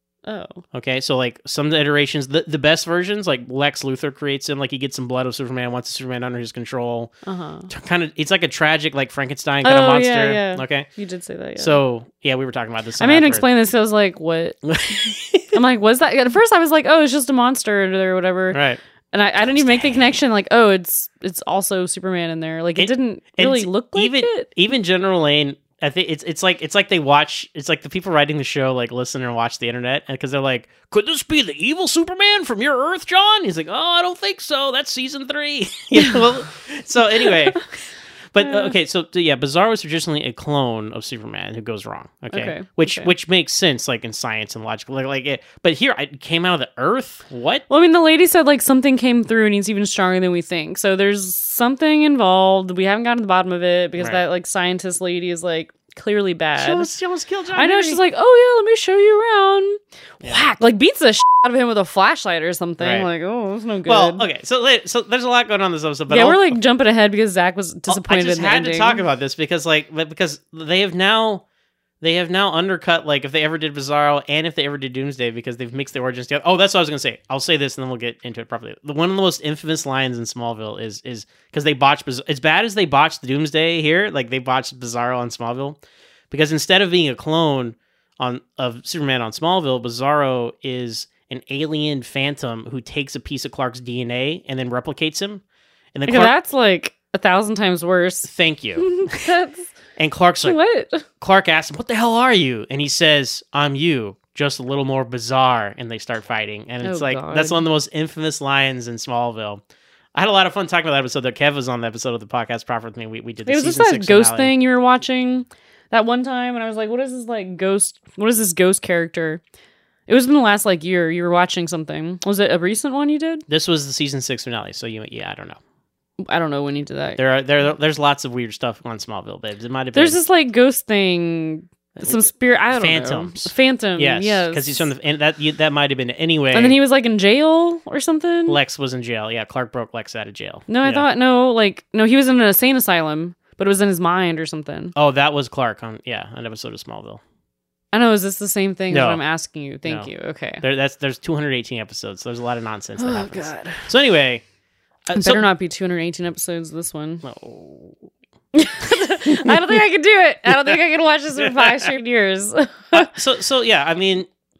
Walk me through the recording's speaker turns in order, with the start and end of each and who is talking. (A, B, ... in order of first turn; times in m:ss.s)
0:00.3-0:00.6 A
0:00.7-0:07.1 B
0:07.2-0:07.7 A
0:07.7-0:10.9 B
0:09.6-0:11.8 A
0:11.6-0:13.5 B
0:13.0-0:14.6 A
0:14.7-0:15.6 B
0:15.5-0:18.6 A
0:18.5-0:18.8 B
0:19.1-0:24.5 A
0:19.5-0:19.9 B
0:22.8-0:37.7 B
0:38.3-0:47.6 B
0:38.4-0:38.7 A
0:42.3-0:43.1 A
0:47.7-0:56.9 A
0:56.6-0:58.0 B
0:57.6-1:04.2 A
1:02.8-1:03.1 B
1:03.9-1:06.6 B
1:06.1-1:09.0 A
1:07.9-1:11.4 B
1:12.0-1:25.8 B
1:26.3-1:35.4 B
1:36.0-1:36.3 B
1:36.1-1:39.7 A
1:38.3-1:39.3 B
1:40.0-1:40.6 B
1:40.4-1:41.1 A
1:41.2-1:49.6 B
1:46.8-1:47.6 A
1:50.2-1:54.5 B
1:53.4-1:59.4 A
2:00.1-2:03.4 A
2:03.5-2:05.6 B
2:06.2-2:07.2 A
2:07.2-2:10.2 B
2:09.9-2:14.9 A
2:12.0-2:16.8 B
2:16.5-2:18.6 A
2:18.5-2:21.0 B
2:20.7-2:24.9 A
2:25.0-2:27.2 B
2:27.9-2:30.6 A
2:28.9-2:29.2 B
2:29.9-2:34.4 B
2:33.0-2:33.9 A
2:35.1-2:35.4 B
2:35.2-2:37.2 A
2:37.2-2:38.0 B
2:38.5-2:43.1 A
2:38.9-2:39.8 B
2:40.5-2:40.8 B
2:41.4-2:41.9 B
2:42.9-2:44.3 B